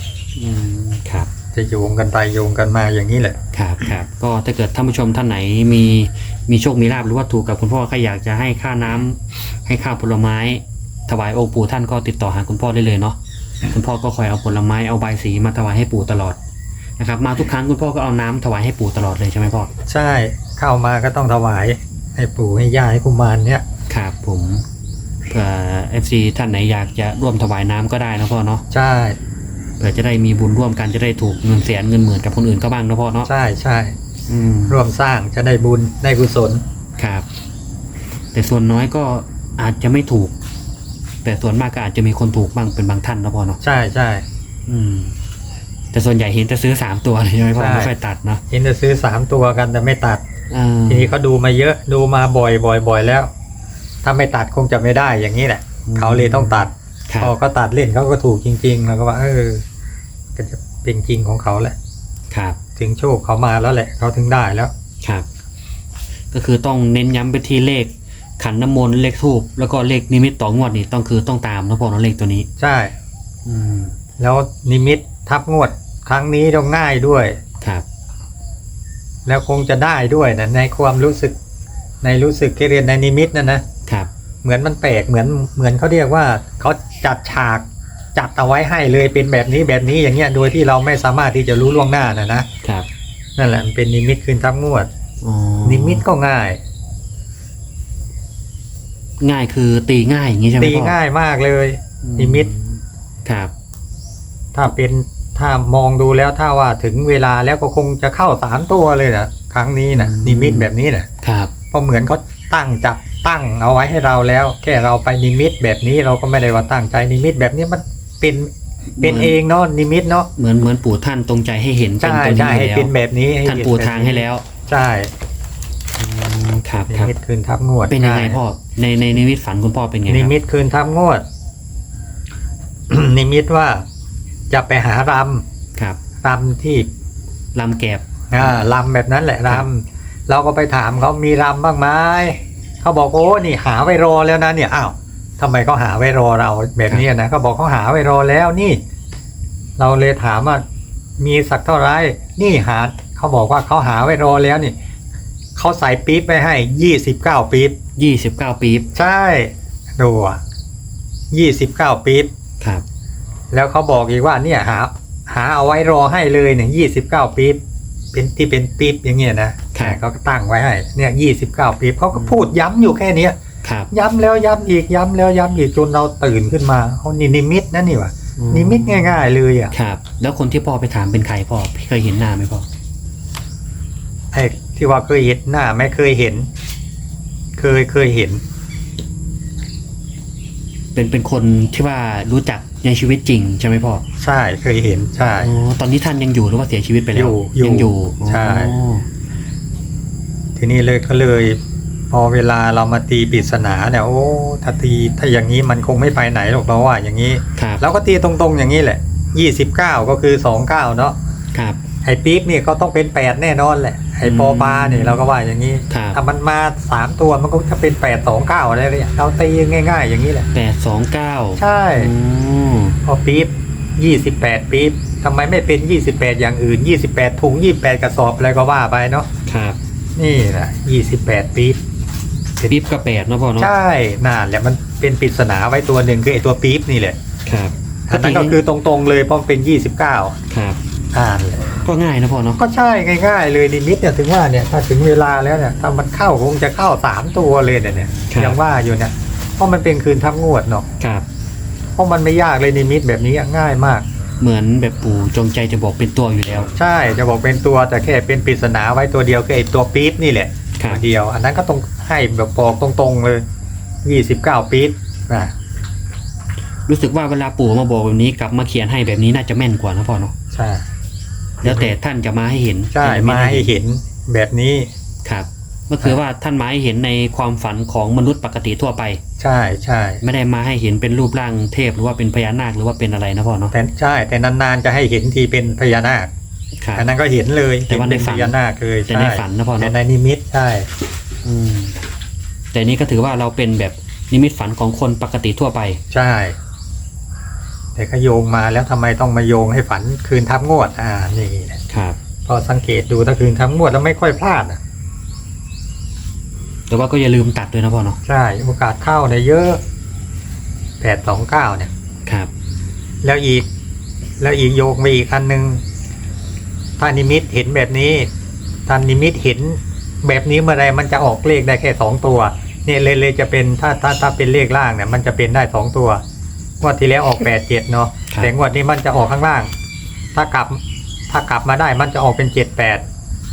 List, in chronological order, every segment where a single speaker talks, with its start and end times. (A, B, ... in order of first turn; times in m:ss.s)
0:00.4-0:01.3 A
0:01.5-0:03.4 B
0:03.5-0:16.4 A
0:17.0-0:19.7 A
0:19.9-0:23.6 B
0:23.9-0:24.6 A
0:25.3-0:28.6 A
0:28.7-0:29.2 B
0:29.8-0:33.3 A
0:33.2-0:33.9 B
0:34.3-0:34.8 A
0:34.7-0:36.6 B
0:37.0-0:37.2 A
0:38.3-0:40.3 A
0:41.2-0:43.6 A
0:43.6-0:44.2 B
0:44.7-0:45.1 A
0:45.9-0:48.4 A
0:47.5-0:47.9 B
0:48.5-0:50.2 B
0:50.5-0:51.1 A
0:50.9-0:53.3 B
0:54.0-0:59.6 B
0:55.8-0:57.3 A
1:00.4-1:01.7 B
1:02.3-1:02.6 A
1:02.8-1:04.7 B
1:06.3-1:12.5 A
1:12.6-1:12.9 B
1:13.4-1:13.9 A
1:14.2-1:17.4 B
1:17.6-1:17.8 A
1:19.2-1:21.3 B
1:22.0-1:23.6 B
1:24.4-1:32.4 B
1:32.6-1:32.9 A
1:33.4-1:34.9 B
1:35.2-1:36.0 A
1:35.6-1:36.6 B
1:39.2-1:40.9 A
1:40.6-1:42.5 B
1:42.0-1:43.5 A
1:44.5-1:51.1 B
1:50.0-1:50.7 A
1:51.2-1:51.5 A
1:51.7-1:58.5 B
1:59.0-1:59.4 A
1:59.0-2:00.3 B
2:00.4-2:02.9 A
2:02.0-2:05.1 B
2:03.4-2:04.4 A
2:06.0-2:07.1 A
2:06.9-2:08.4 B
2:07.9-2:10.3 A
2:10.1-2:11.2 B
2:12.9-2:13.8 B
2:14.5-2:15.4 B
2:16.2-2:16.9 B
2:17.5-2:18.7 A
2:18.3-2:28.8 B
2:29.8-2:30.6 B
2:31.2-2:34.7 B
2:35.6-2:37.8 B
2:38.0-2:38.9 A
2:38.9-2:40.4 B
2:41.3-2:42.3 B
2:43.5-2:47.6 B
2:48.1-2:53.4 B
2:49.7-2:50.0 A
2:52.1-2:52.4 A
2:53.6-2:53.9 A
2:53.9-2:59.7 B
2:58.4-3:02.6 A
3:04.3-3:06.5 B
3:07.6-3:08.4 B
3:10.9-3:14.0 A
3:14.2-3:15.5 B
3:15.4-3:19.0 A
3:17.1-3:18.7 B
3:20.6-3:21.6 B
3:22.1-3:31.2 B
3:27.6-3:27.8 A
3:31.5-3:31.8 A
3:32.0-3:40.5 B
3:34.2-3:35.2 A
3:35.9-3:36.2 A
3:40.5-3:43.0 A
3:41.6-3:42.1 B
3:43.0-3:49.3 B
3:49.4-3:49.8 A
3:50.2-3:51.8 B
3:52.7-3:53.7 A
3:53.6-3:57.2 B
3:57.4-3:58.6 A
3:58.1-4:00.4 B
4:00.5-4:00.8 A
4:01.1-4:01.6 B
4:01.8-4:02.6 A
4:02.6-4:10.8 B
4:08.3-4:08.6 A
4:11.0-4:11.2 A
4:12.0-4:14.0 B
4:14.4-4:16.7 A
4:16.8-4:23.4 B
4:20.8-4:21.0 A
4:24.0-4:25.5 B
4:26.9-4:30.3 A
4:30.5-4:30.8 B
4:31.6-4:31.9 B
4:31.6-4:33.7 A
4:32.9-4:34.9 B
4:35.2-4:39.2 A
4:39.4-4:40.2 B
4:40.2-4:43.7 A
4:43.7-4:46.3 B
4:46.9-4:50.9 B
4:47.9-4:48.6 A
4:49.1-4:49.9 A
4:51.4-4:52.0 A
4:52.7-4:56.0 A
4:56.1-4:56.6 B
4:58.0-5:01.8 B
5:01.9-5:02.2 A
5:02.4-5:04.8 B
5:06.9-5:08.2 A
5:08.2-5:09.8 B
5:11.0-5:11.9 B
5:12.2-5:12.5 A
5:13.2-5:13.6 B
5:14.4-5:15.8 B
5:17.0-5:18.3 B
5:18.9-5:26.2 B
5:26.8-5:29.7 B
5:30.3-5:30.8 B
5:31.3-5:33.0 B